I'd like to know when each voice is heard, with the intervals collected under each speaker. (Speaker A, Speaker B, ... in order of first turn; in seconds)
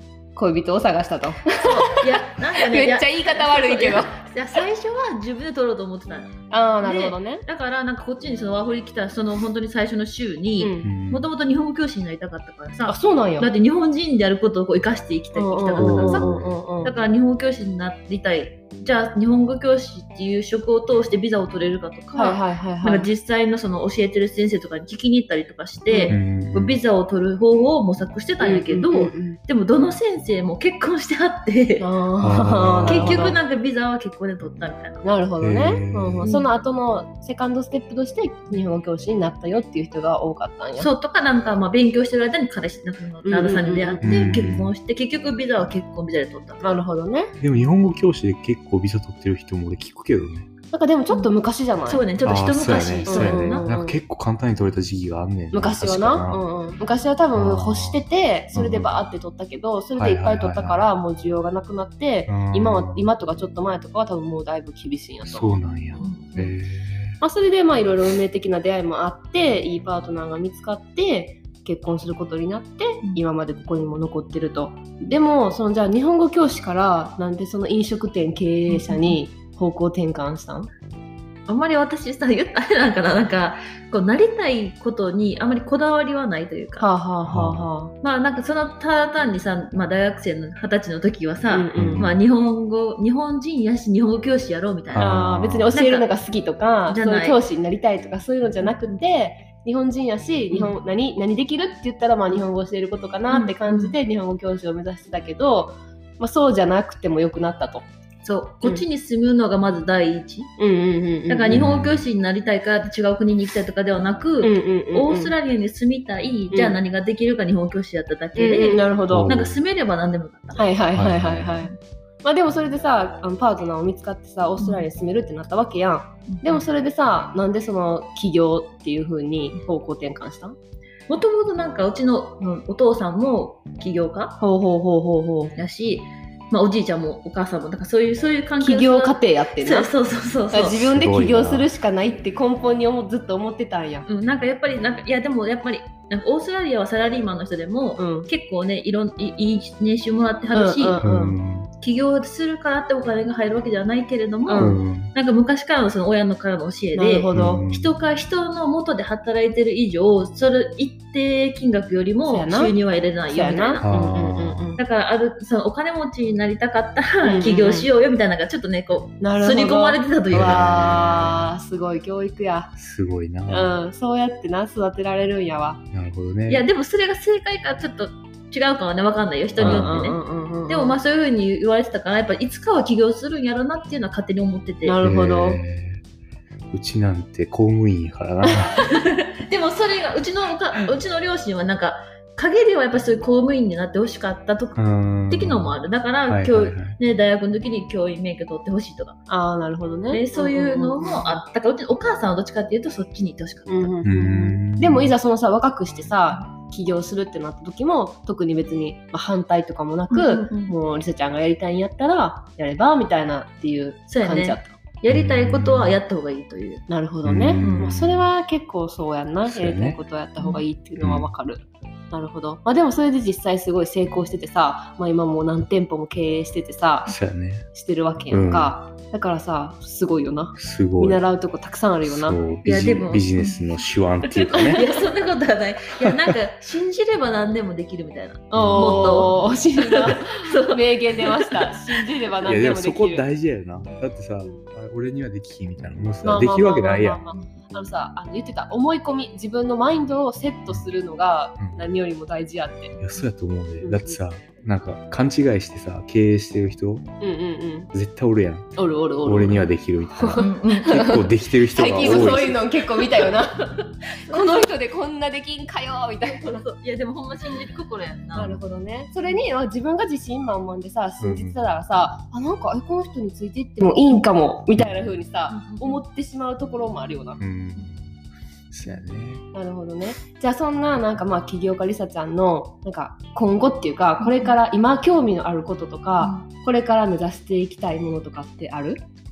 Speaker A: 0.3-4.2, 6.5-7.4, 10.6-10.9, 12.8-13.5, 15.3-16.9, 22.1-23.1, 25.9-26.1, 28.4-29.4, 31.8-33.4, 35.0-40.9, 43.2-44.2, 46.6-47.3, 50.7-52.0, 53.0-54.0, 55.5-66.2, 67.2-80.7, 86.8-87.9, 91.5-92.1, 95.0-107.9, 110.6-111.6, 114.4-115.3, 116.5-116.8, 118.3-119.3, 120.5-130.5, 134.4-135.5, 138.6-139.9, 140.5-144.1, 148.0-148.3, 150.5-151.4, 154.5-154.8, 156.9-157.6, 162.3-162.8, 163.3-164.8, 167.2-167.9, 169.2-172.7, 173.5-175.8, 179.6-181.0, 184.8-185.6, 199.3-201.4, 203.7-214.8, 216.9-227.2, 227.7-232.4, 238.5-243.2, 244.4-244.7, 246.2-252.9, 253.8-254.2, 257.2-257.9, 258.8-266.6, 268.3-277.4, 279.5-289.0
Speaker B: 1.6-31.9, 32.9-35.0, 36.2-36.5, 40.8-46.8, 51.9-53.7, 66.0-66.5, 78.7-79.2, 81.5-86.8, 88.0-95.1, 95.7-96.1, 96.9-97.4, 98.6-99.0, 103.3-104.0, 108.2-110.5, 111.3-120.7, 124.6-124.8, 126.3-126.6, 131.1-134.3, 135.5-140.8, 144.1-151.0, 151.8-163.9, 164.8-170.7, 176.5-185.0, 188.7-199.2, 200.1-204.0, 210.1-210.7, 214.1-216.8, 217.6-218.0, 232.6-233.6, 234.3-242.0, 260.4-261.1, 262.0-262.3, 264.3-264.6, 266.3-268.6, 275.5-276.0, 284.2-284.5
Speaker C: 10.8-11.3, 15.8-16.4, 26.1-26.8, 32.2-33.4, 35.4-36.3, 44.0-44.7, 47.4-50.5, 52.2-56.4, 57.3-59.0, 60.0-60.9, 62.3-63.1, 65.2-67.1, 87.3-87.6, 91.8-92.2, 94.9-95.7, 111.5-112.0, 119.1-119.6, 120.9-121.6, 140.8-141.7, 151.0-151.7, 154.6-155.1, 157.3-157.9, 163.8-164.7, 170.3-171.5, 172.8-173.7, 175.9-176.6, 179.6-180.0, 185.0-186.0, 186.7-188.8, 194.8-196.9, 204.0-205.1, 215.1-216.0, 217.2-218.2, 219.4-220.0, 221.0-221.3, 227.1-227.7, 228.3-228.7, 230.6-231.2, 232.0-234.8, 238.5-239.2, 242.4-247.2, 251.6-251.9, 253.0-257.1, 257.9-262.6, 271.2-271.6, 277.4-278.2, 278.7-279.4